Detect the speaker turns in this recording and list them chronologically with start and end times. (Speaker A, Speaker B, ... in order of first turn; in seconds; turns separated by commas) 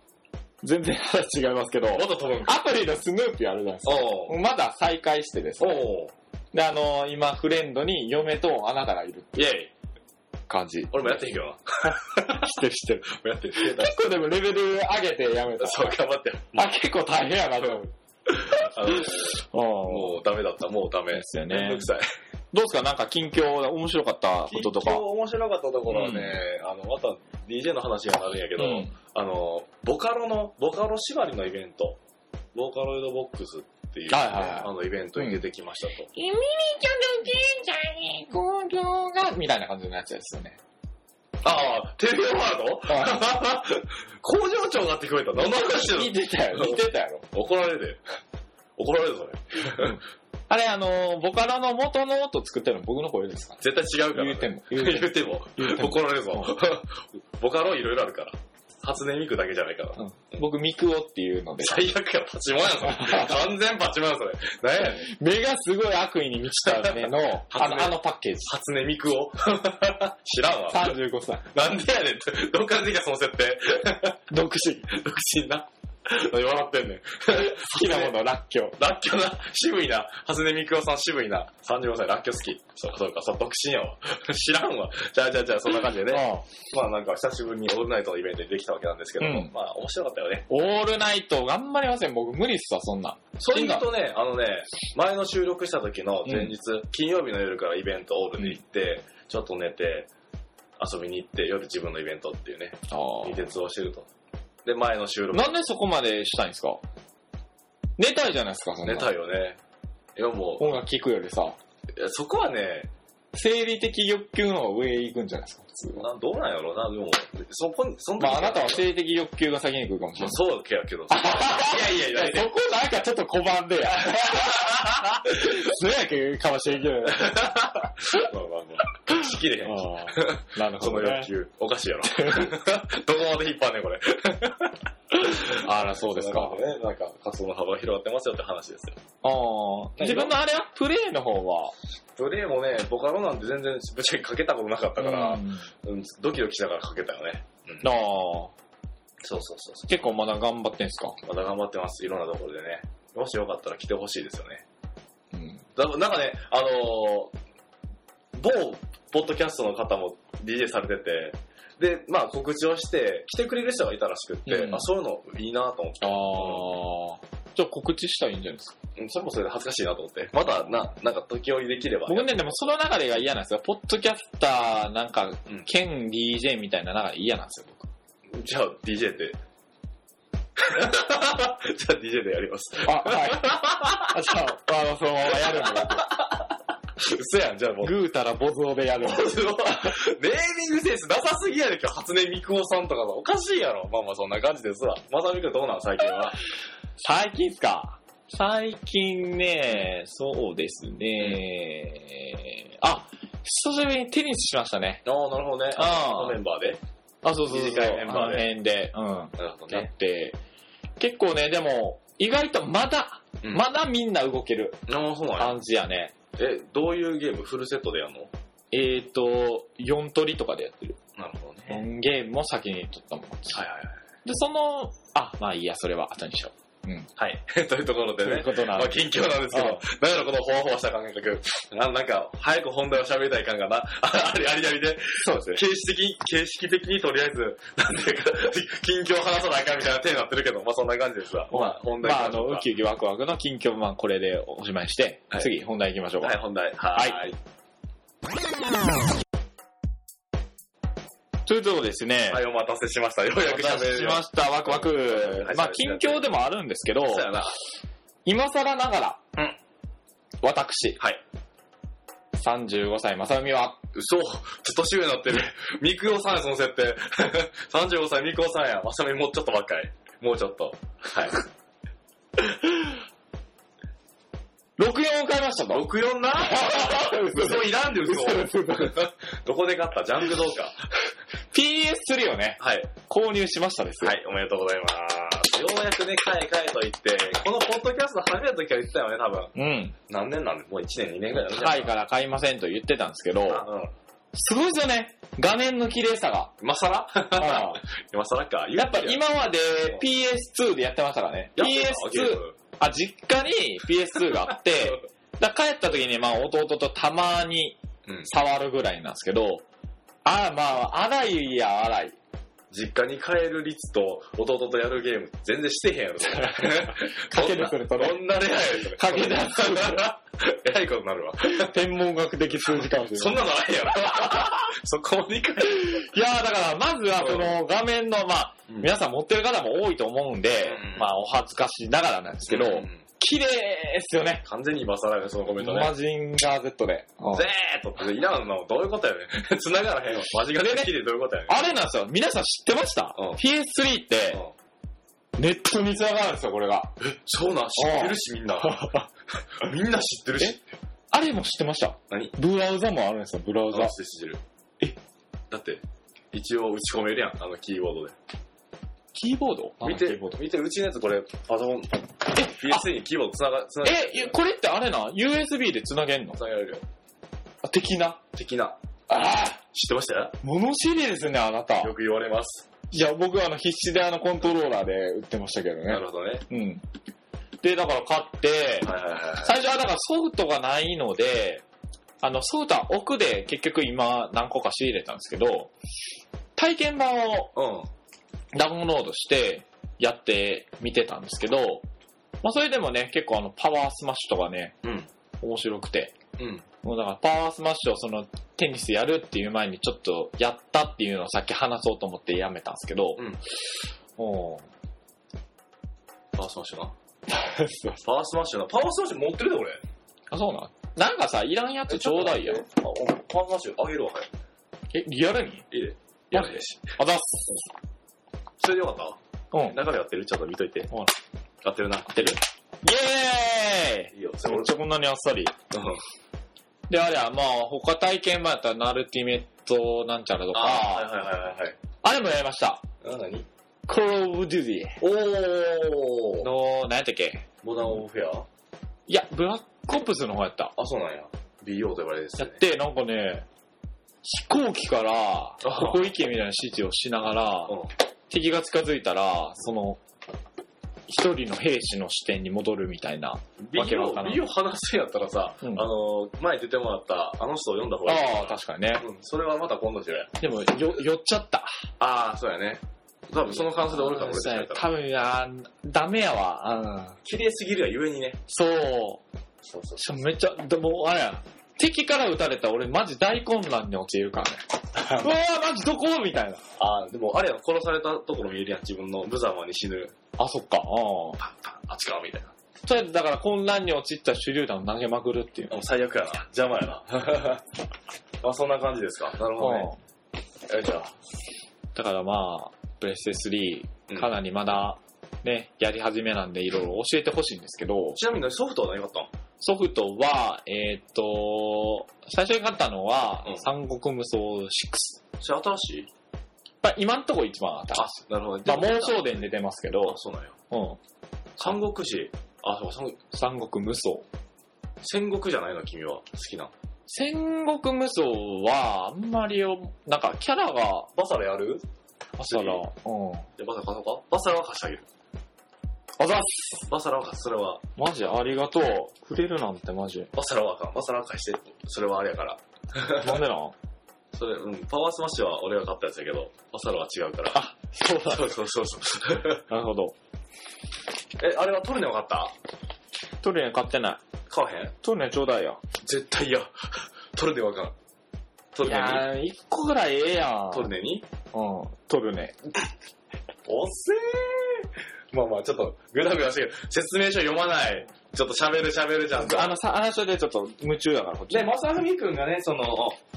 Speaker A: 0.6-5.8, Speaker B: 1.9-2.6, Speaker B: 3.8-4.3, Speaker B: 5.6-6.1, Speaker A: 6.5-9.4, Speaker B: 9.3-9.7, Speaker A: 10.5-11.2, Speaker B: 10.9-12.5, Speaker A: 12.2-16.0, Speaker B: 13.0-14.2, Speaker B: 15.6-16.7, Speaker A: 16.5-17.9, Speaker B: 18.4-19.3, Speaker A: 18.6-20.2, Speaker B: 19.9-22.1, Speaker A: 21.1-21.9, Speaker A: 22.5-25.0, Speaker B: 24.5-32.0, Speaker A: 25.9-26.4, Speaker A: 28.6-28.9, Speaker B: 32.5-36.1, Speaker A: 34.1-35.4, Speaker A: 36.1-40.6, Speaker B: 41.4-48.0, Speaker A: 42.9-43.2, Speaker A: 45.4-47.2, Speaker B: 48.8-50.0, Speaker A: 49.8-53.6, Speaker B: 53.6-60.4, Speaker A: 54.1-56.5, Speaker A: 60.0-61.9, Speaker B: 61.6-65.1, Speaker A: 62.8-63.4, Speaker A: 64.8-68.5, Speaker B: 66.6-71.0, Speaker A: 70.7-71.5, Speaker B: 71.5-74.2, Speaker A: 74.3-74.9, Speaker B: 74.9-78.2, Speaker A: 77.3-78.8, Speaker B: 78.8-90.5, Speaker A: 86.1-86.5, Speaker A: 89.2-89.5, Speaker A: 90.5-93.9, Speaker B: 93.4-100.1, Speaker A: 96.2-96.5, Speaker B: 100.8-104.1, Speaker A: 102.9-103.5, Speaker B: 104.6-105.6, Speaker A: 105.3-106.8, Speaker A: 108.0-109.1, Speaker B: 108.8-109.6, Speaker B: 110.2-110.8, Speaker A: 110.6-111.6, Speaker B: 111.9-112.9, Speaker A: 113.3-116.1, Speaker B: 116.0-118.8, Speaker A: 118.2-120.4, Speaker B: 120.2-122.5, Speaker A: 121.1-128.3, Speaker B: 124.2-125.2, Speaker B: 127.0-134.8, Speaker A: 129.2-131.3, Speaker A: 132.1-132.5, Speaker A: 135.1-136.6, Speaker B: 135.3-139.0, Speaker A: 139.2-141.7, Speaker B: 140.0-140.3, Speaker B: 142.2-147.9, Speaker A: 145.0-145.7, Speaker A: 147.8-148.5, Speaker B: 149.2-150.0, Speaker A: 149.9-151.2, Speaker B: 151.2-154.6, Speaker A: 155.3-155.6, Speaker B: 155.8-157.3, Speaker B: 158.3-166.7, Speaker A: 164.4-164.9, Speaker A: 166.0-168.7, Speaker B: 168.9-172.5, Speaker A: 170.5-170.7, Speaker A: 172.1-177.9, Speaker B: 178.3-179.4, Speaker B: 180.6-184.2, Speaker A: 182.8-186.2, Speaker B: 185.3-186.3, Speaker B: 187.0-188.0, Speaker A: 187.8-189.9, Speaker B: 189.0-196.4, Speaker A: 197.0-205.0, Speaker B: 205.0-206.8, Speaker A: 205.7-206.4, Speaker A: 207.2-210.3, Speaker B: 207.4-208.5, Speaker B: 209.4-209.9, Speaker A: 211.0-214.8, Speaker B: 214.9-215.6, Speaker A: 215.3-216.1, Speaker B: 216.3-218.3, Speaker A: 218.7-221.0, Speaker B: 221.2-221.8, Speaker A: 221.7-223.6, Speaker B: 223.5-224.0, Speaker A: 224.2-227.1, Speaker B: 227.2-242.7, Speaker A: 228.2-229.8, Speaker A: 235.2-235.6, Speaker A: 241.5-246.4, Speaker B: 246.2-247.4, Speaker A: 246.9-247.2, Speaker A: 251.4-252.4, Speaker B: 252.3-256.3, Speaker A: 253.4-257.3, Speaker B: 257.1-257.6, Speaker A: 258.2-259.2, Speaker A: 260.4-261.0, Speaker A: 262.4-263.8, Speaker B: 263.9-271.4, Speaker A: 274.8-279.1, Speaker B: 275.7-280.8, Speaker A: 281.5-284.2, Speaker B: 282.6-282.9, Speaker B: 284.0-289.5, Speaker A: 289.6-289.9, Speaker B: 290.1-291.9, Speaker A: 291.4-293.6, Speaker B: 293.4-293.9, Speaker A: 294.3-296.5, Speaker B: 296.6-299.2, Speaker A: 297.3-297.8, Speaker A: 298.8-309.6, Speaker B: 301.6-302.6, Speaker B: 308.1-308.3, Speaker A: 310.2-312.2, Speaker B: 312.7-321.8, Speaker A: 316.2-320.1, Speaker A: 321.4-323.4, Speaker B: 322.7-326.1, Speaker A: 325.6-334.4, Speaker B: 327.2-327.6, Speaker B: 330.6-331.1, Speaker B: 332.5-333.0, Speaker B: 334.4-335.9, Speaker A: 335.6-337.5, Speaker B: 337.3-341.7, Speaker A: 341.5-344.4, Speaker B: 343.1-343.4, Speaker A: 345.4-346.9, Speaker B: 347.0-349.0, Speaker A: 347.8-349.1, Speaker B: 349.6-350.6, Speaker A: 351.1-353.9, Speaker B: 352.1-352.3, Speaker B: 353.7-354.4, Speaker B: 355.5-358.1, Speaker A: 359.1-360.4, Speaker B: 359.8-364.3, Speaker A: 362.3-362.9, Speaker A: 363.8-366.4, Speaker B: 366.3-366.8, Speaker A: 367.6-368.2, Speaker B: 368.3-368.8, Speaker A: 369.1-369.6, Speaker B: 369.7-370.4, Speaker A: 370.4-371.9, Speaker B: 371.8-372.7, Speaker A: 372.9-376.8, Speaker B: 375.9-376.4, Speaker A: 377.6-381.6, Speaker B: 378.8-379.6, Speaker A: 382.2-385.7, Speaker A: 386.6-387.5, Speaker B: 387.5-387.9, Speaker A: 388.5-391.9, Speaker A: 392.4-394.8, Speaker B: 394.8-395.1, Speaker A: 395.4-396.2, Speaker B: 396.4-396.6, Speaker A: 396.8-403.2, Speaker A: 404.2-404.7, Speaker B: 406.3-406.9, Speaker A: 407.3-408.0, Speaker B: 408.0-409.8, Speaker A: 410.3-412.6, Speaker B: 411.9-414.3, Speaker A: 414.9-415.7, Speaker B: 415.7-416.9, Speaker A: 416.3-417.6, Speaker B: 418.6-419.2, Speaker A: 419.5-419.8, Speaker B: 419.7-420.9, Speaker B: 421.6-422.4, Speaker A: 422.1-425.5, Speaker B: 424.1-424.7, Speaker B: 425.7-426.0, Speaker A: 426.9-431.1, Speaker B: 430.5-431.8, Speaker A: 432.0-432.8, Speaker B: 433.0-433.5, Speaker A: 433.9-435.0, Speaker B: 435.0-436.5, Speaker A: 436.4-437.4, Speaker B: 437.6-438.5, Speaker A: 439.1-440.7, Speaker B: 440.8-442.6, Speaker A: 442.4-443.4, Speaker A: 444.2-447.8, Speaker B: 445.6-446.1, Speaker A: 448.3-450.0, Speaker A: 451.1-454.4, Speaker B: 453.6-460.3, Speaker A: 455.6-455.9, Speaker A: 458.1-459.1, Speaker A: 460.4-461.8, Speaker B: 462.0-464.9, Speaker A: 463.4-467.2, Speaker B: 467.2-468.4, Speaker A: 468.5-469.2, Speaker B: 469.6-470.1, Speaker A: 470.0-476.6, Speaker B: 474.9-475.4, Speaker B: 476.8-480.1, Speaker A: 480.4-481.4, Speaker B: 481.4-482.5, Speaker A: 482.9-485.8, Speaker B: 485.7-487.6, Speaker B: 488.4-489.9, Speaker A: 489.6-490.0, Speaker B: 490.7-491.1, Speaker A: 491.9-498.2, Speaker B: 494.1-494.3, Speaker B: 498.1-499.3, Speaker A: 499.6-505.2, Speaker B: 503.4-503.7, Speaker B: 505.4-506.1, Speaker A: 506.8-510.2, Speaker B: 507.9-509.4, Speaker B: 510.1-510.5, Speaker A: 510.7-511.0, Speaker B: 511.6-513.2, Speaker A: 513.3-514.2, Speaker B: 515.0-516.7, Speaker A: 517.1-521.1, Speaker B: 521.1-521.8, Speaker A: 522.4-523.5, Speaker B: 522.5-522.8, Speaker B: 523.6-525.0, Speaker A: 526.2-526.9, Speaker B: 526.9-527.8, Speaker A: 528.0-530.3, Speaker B: 530.3-533.5, Speaker A: 533.1-533.7, Speaker B: 534.3-539.6, Speaker A: 537.5-538.5, Speaker A: 539.7-540.1, Speaker B: 541.4-542.5, Speaker A: 543.4-544.2, Speaker B: 544.5-544.9, Speaker A: 545.0-545.8, Speaker B: 546.0-547.9, Speaker B: 548.7-549.3, Speaker A: 548.8-550.9, Speaker B: 550.7-551.2, Speaker A: 551.5-552.6, Speaker B: 553.6-559.8, Speaker A: 559.3-561.7, Speaker B: 561.5-563.2